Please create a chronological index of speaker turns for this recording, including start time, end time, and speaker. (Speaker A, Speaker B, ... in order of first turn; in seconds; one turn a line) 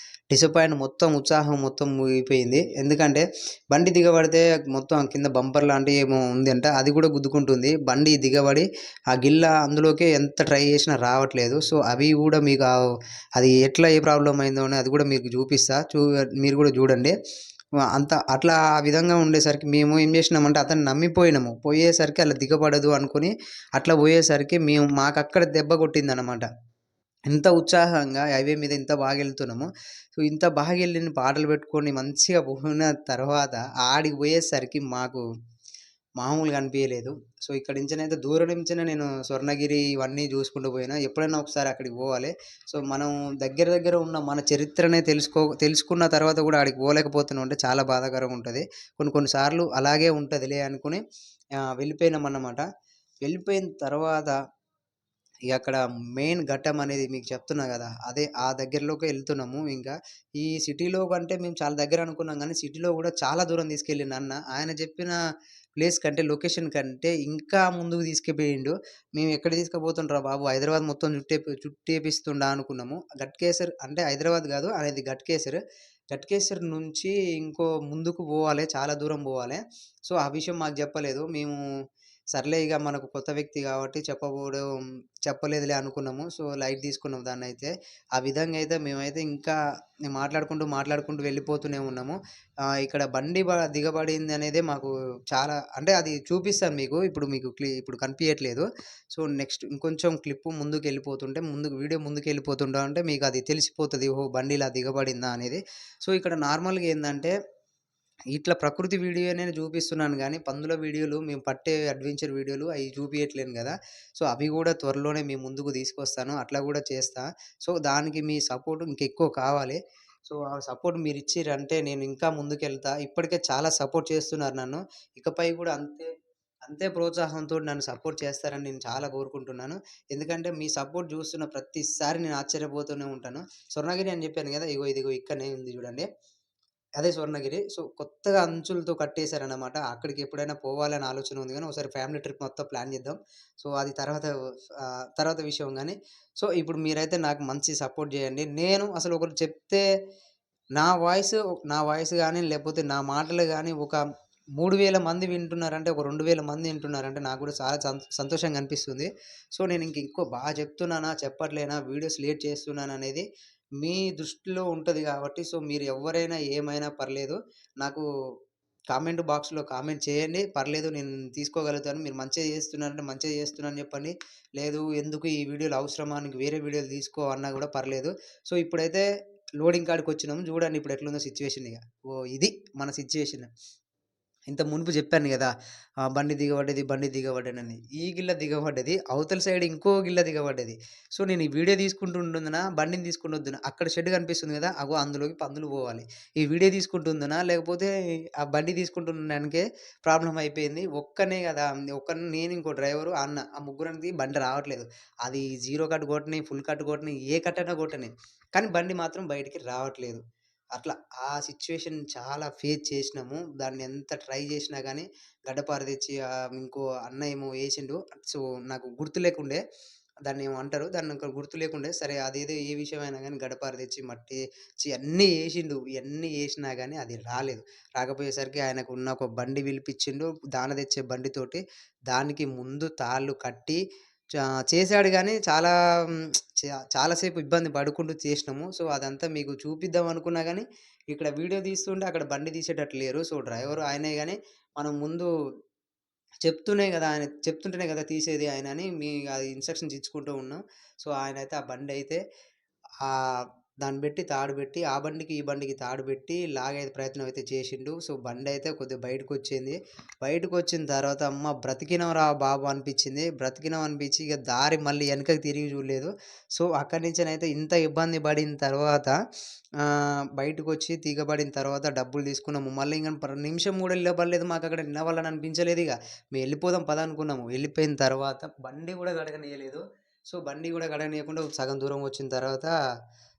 Speaker A: 0.3-12.8
Speaker A: 13.4-17.1
Speaker A: 17.9-26.5
Speaker A: 27.3-35.2
Speaker A: 36.2-51.0
Speaker A: 51.6-52.6
Speaker A: 53.2-54.4
Speaker A: 55.5-65.2
Speaker A: 65.8-75.6
Speaker A: 76.1-81.6
Speaker A: 82.3-84.7
Speaker A: 85.2-92.2
Speaker A: 92.7-107.3
Speaker A: 108.3-126.1
Speaker A: 126.7-136.1
Speaker A: 137.0-149.8
Speaker A: 150.8-154.0
Speaker A: 154.6-163.2
Speaker A: 163.8-168.0
Speaker A: 168.9-179.0
Speaker A: 179.6-183.5
Speaker A: 184.5-185.5
Speaker A: 186.1-210.2
Speaker A: 210.7-219.6
Speaker A: 220.2-233.8
Speaker A: 234.7-245.3
Speaker A: 246.4-252.2
Speaker A: 253.0-269.2
Speaker A: 269.8-282.7